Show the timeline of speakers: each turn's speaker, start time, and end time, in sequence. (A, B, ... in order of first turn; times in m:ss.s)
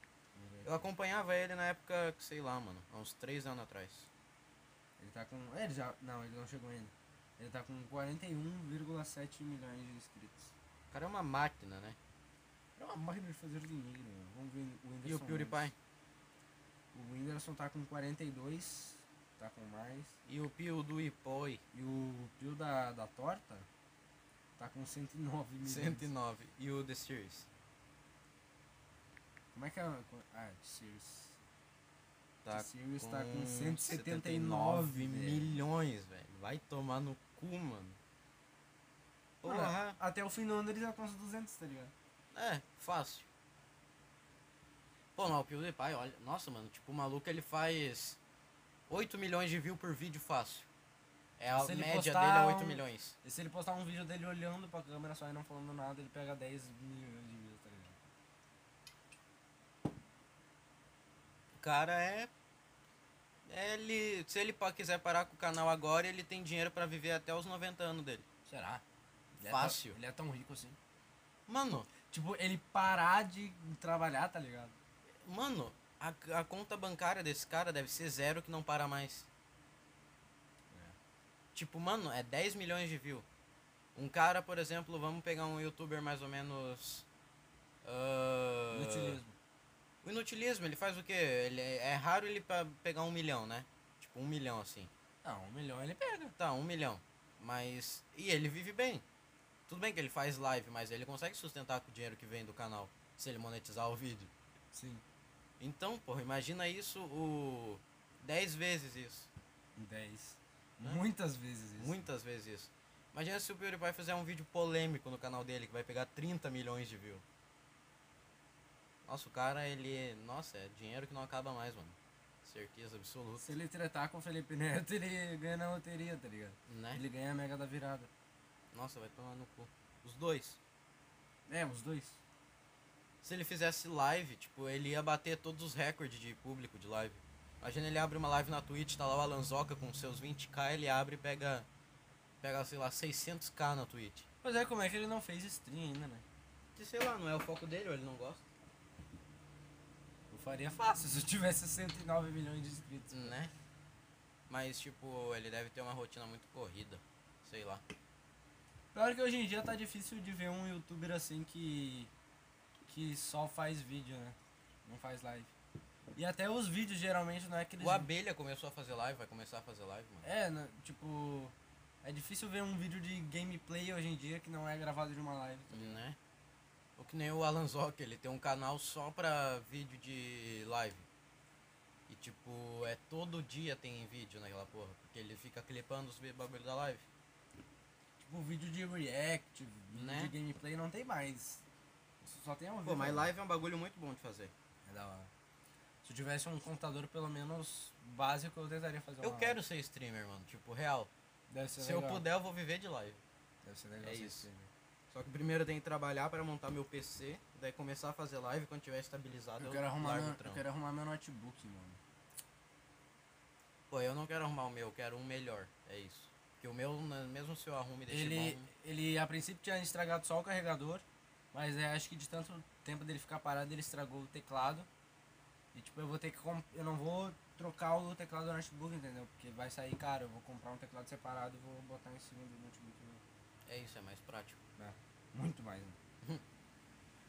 0:00.3-0:00.9 A
0:00.6-0:04.1 B
0:05.0-0:10.5 A
0:10.9-0:12.0 B
0:12.8-0:15.7 A
0:15.0-0:15.7 B
0:16.9-0:20.2 A
0:20.2-0:21.6 B
0:21.7-0:23.7 A
0:24.6-0:26.1 A
0:25.6-0:27.5 B
0:29.5-0:31.4 A
0:32.4-0:38.0 B
0:32.5-0:35.5 A
0:39.4-0:40.0 B
0:39.4-0:41.9 A
0:42.3-0:43.3 B
0:45.1-0:48.2 B
0:48.9-0:50.7 B
0:51.4-0:53.2 B
0:51.5-0:58.0 A
1:01.6-1:02.3 B
1:03.4-1:08.2 B
1:08.4-1:08.8 A
1:09.4-1:10.8 A
1:09.4-1:10.0 B
1:11.5-1:11.9 B
1:12.1-1:14.8 A
1:15.2-1:19.3 B
1:20.7-1:21.0 A
1:21.5-1:23.2 B
1:23.9-1:27.0 B
1:27.8-1:29.2 B
1:28.7-1:29.4 A
1:30.0-1:34.9 B
1:35.2-1:36.3 A
1:36.4-1:39.0 B
1:39.7-1:44.3 B
1:44.7-1:45.0 A
1:45.6-1:49.3 B
1:49.8-1:52.1 A
1:51.8-1:57.2 B
1:59.0-2:03.5 B
2:03.4-2:08.1 A
2:06.7-2:07.0 B
2:08.7-2:10.6 B
2:11.5-2:12.2 A
2:13.2-2:21.7 B
2:22.4-2:24.3 B
2:24.4-2:26.2 A
2:26.8-2:28.4 B
2:30.3-2:33.4 A
2:33.1-2:33.5 B
2:34.5-2:37.8 B
2:38.9-2:42.1 A
2:42.9-2:45.5 A
2:46.1-2:48.1 A
2:47.8-2:50.3 B
2:50.2-2:56.0 A
2:55.7-2:56.2 B
2:57.0-3:01.1 B
3:02.1-3:07.0 B
3:08.2-3:11.6 A
3:09.9-3:10.3 B
3:12.2-3:13.3 A
3:12.8-3:14.5 B
3:14.8-3:15.3 A
3:16.0-3:19.6 A
3:19.2-3:21.1 B
3:21.5-3:22.2 A
3:21.8-3:23.2 B
3:23.6-3:24.7 A
3:24.0-3:24.5 B
3:25.1-3:30.6 B
3:29.6-3:32.0 A
3:33.9-3:38.7 B
3:38.1-3:44.9 A
3:45.7-3:53.2 A
3:53.6-3:54.6 B
3:54.8-3:56.0 A